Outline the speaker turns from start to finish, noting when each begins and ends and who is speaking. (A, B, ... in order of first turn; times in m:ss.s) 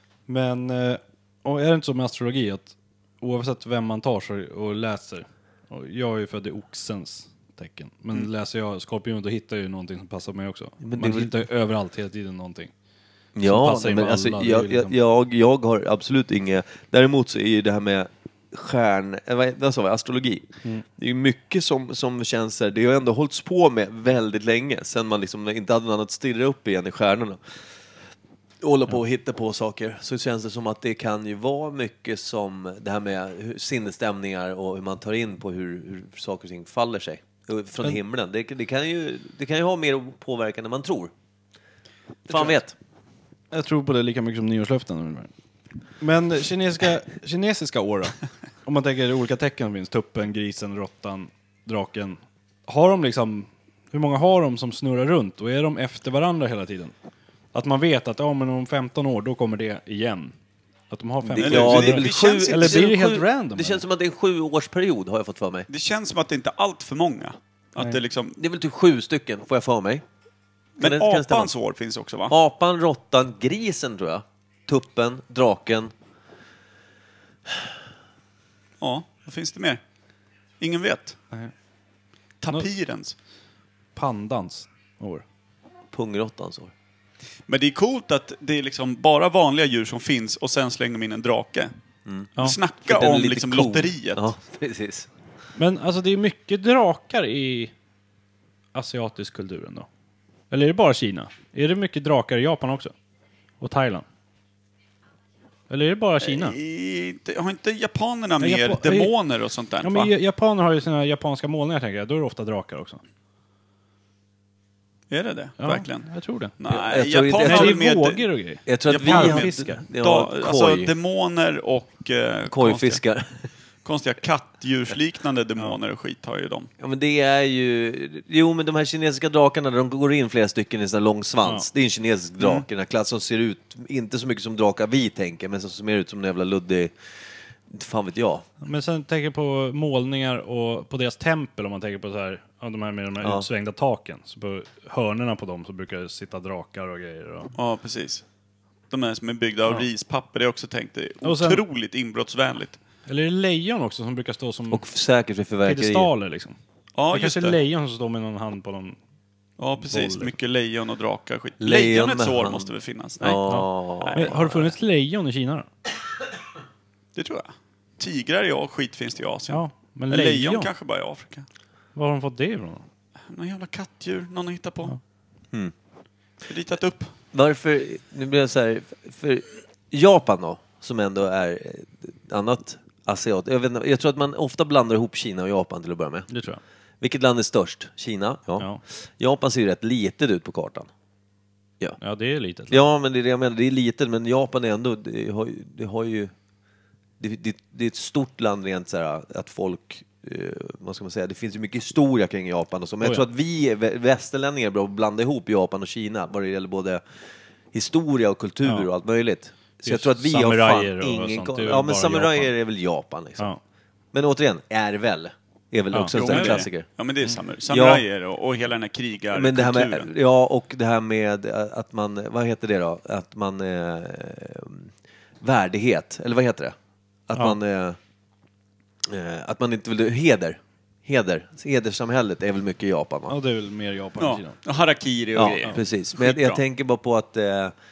0:00.3-0:12.7 A
0:10.8-0:11.3 B
0:13.4-0:27.4 B
0:13.4-0:14.9 A
0:28.6-0:41.1 B
0:42.3-0:42.7 B
0:43.5-0:45.3 A
0:46.0-0:56.9 A
0:57.5-1:00.3 A
1:00.9-1:03.8 A
1:01.2-1:05.7 B
1:01.4-1:02.9 C
1:05.7-1:08.4 C
1:08.4-1:10.0 B
1:10.8-1:12.3 C
1:10.8-1:11.5 B
1:12.3-1:15.9 B
1:18.8-1:19.8 C
1:20.6-1:21.2 C
1:22.4-1:23.1 C
1:24.0-1:25.2 A
1:25.9-1:26.7 B
1:27.5-1:31.7 C
1:32.4-1:34.3 C
1:32.8-1:35.1 B
1:35.6-1:37.7 A
1:38.7-1:39.9 A
1:40.5-1:42.9 A
1:43.6-1:44.0 A
1:45.7-1:46.6 A
1:46.2-1:50.1 C
1:48.4-1:49.1 A
1:49.8-1:53.0 A
1:55.1-1:58.3 C
1:55.6-1:56.5 A
1:56.7-1:57.8 B
1:57.4-1:59.8 A
1:58.6-2:00.9 B
1:58.9-2:03.0 C
2:02.5-2:03.4 B
2:03.8-2:06.7 C
2:06.8-2:16.9 B
2:12.4-2:12.6 C
2:17.7-2:18.4 B
2:18.6-2:27.5 A
2:23.2-2:23.5 B
2:27.5-2:28.2 C
2:28.9-2:32.8 C
2:31.2-2:31.6 A
2:33.1-2:34.8 A
2:34.7-2:36.1 B
2:35.6-2:36.6 A
2:37.0-2:37.6 C
2:37.1-2:39.0 A
2:39.6-2:43.4 C
2:39.9-2:40.3 A
2:41.6-2:42.7 B
2:43.2-2:44.7 B
2:43.5-2:45.7 A
2:44.0-2:44.3 C
2:47.1-2:51.4 C
2:49.5-2:50.7 A
2:51.9-2:52.8 A
2:53.3-2:54.9 C
2:56.4-2:57.1 C
2:57.3-3:06.3 B
3:06.3-3:06.6 A
3:07.0-3:10.9 B
3:12.0-3:12.8 A
3:12.7-3:16.3 B
3:17.2-3:27.0 B
3:27.7-3:33.5 B
3:29.8-3:32.5 A
3:34.1-3:36.9 B
3:35.9-3:36.6 A
3:36.1-3:40.1 C
3:37.7-3:38.0 B
3:39.3-3:46.7 B
3:47.3-3:48.0 B
3:49.0-3:53.3 B
3:53.3-3:54.5 A
3:54.2-3:56.6 C
3:55.3-3:57.7 B